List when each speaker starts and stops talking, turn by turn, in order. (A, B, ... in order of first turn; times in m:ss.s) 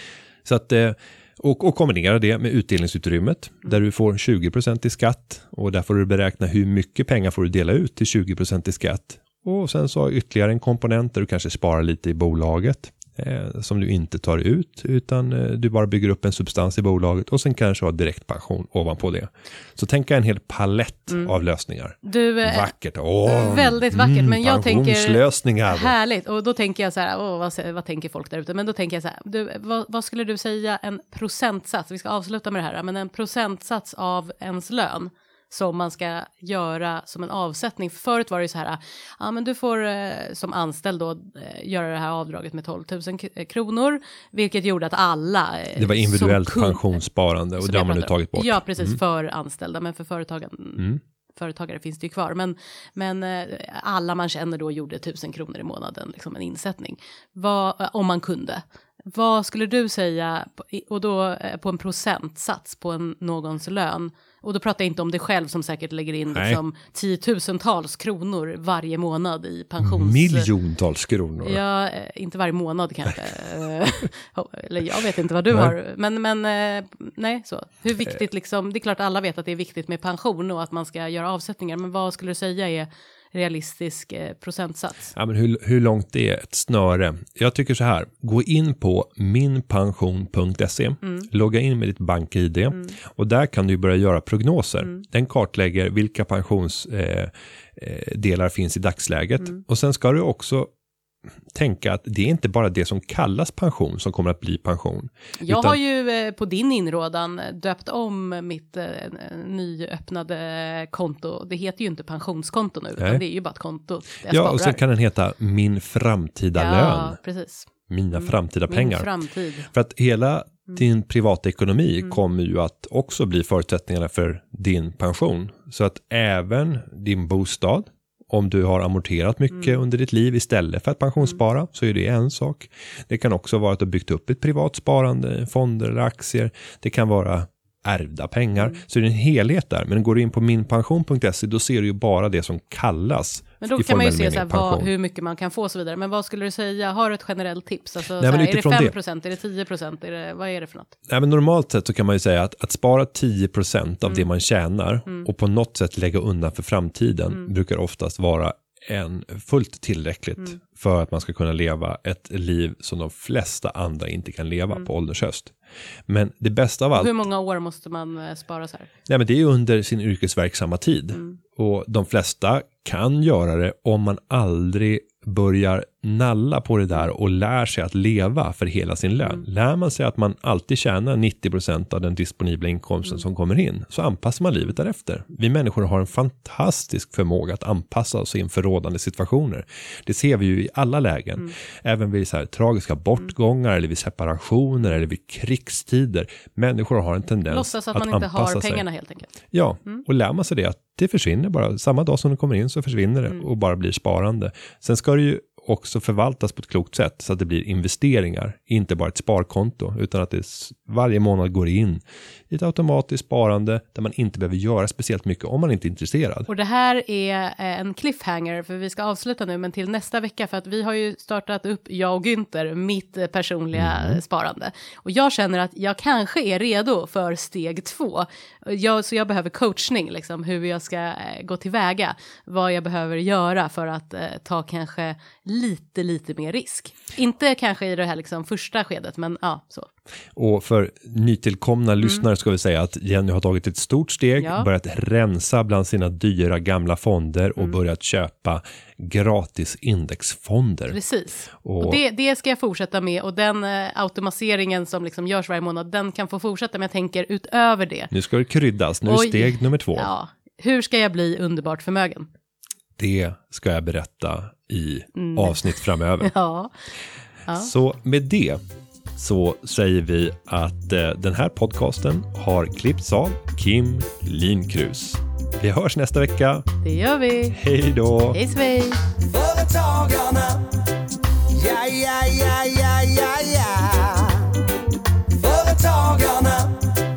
0:00.4-0:25.9 A
0:22.0-0:22.7 B
0:23.2-0:46.8 B
0:45.8-0:49.0 A
0:47.6-1:10.5 B
1:06.3-1:06.6 A
1:09.8-1:11.6 A
1:11.4-1:25.1 B
1:25.1-1:40.7 A
1:41.5-1:45.8 A
1:45.4-1:54.8 B
1:54.2-1:57.2 A
1:56.6-1:57.7 B
1:57.9-1:59.1 A
1:58.2-1:59.7 B
1:59.7-2:24.9 A
2:23.6-2:30.9 B
2:28.2-2:28.9 A
2:31.1-2:45.5 A
2:46.1-2:47.2 A
2:47.0-2:48.9 B
2:49.1-3:18.8 A
3:17.5-3:19.3 B
3:19.5-3:36.5 A
3:36.5-3:59.9 B
3:43.8-3:44.2 A
4:00.4-4:11.0 A
4:04.4-4:04.7 B
4:10.9-4:18.1 B
4:11.5-4:12.0 A
4:18.1-4:20.1 A
4:19.0-4:22.3 B
4:23.0-4:26.3 A
4:25.2-4:25.6 B
4:26.2-4:26.7 B
4:27.5-4:28.6 A
4:29.2-4:36.7 A
4:36.8-4:37.6 B
4:37.5-4:38.4 A
4:38.3-4:39.0 B
4:39.2-4:40.7 C
4:41.5-4:44.5 C
4:45.3-4:46.8 C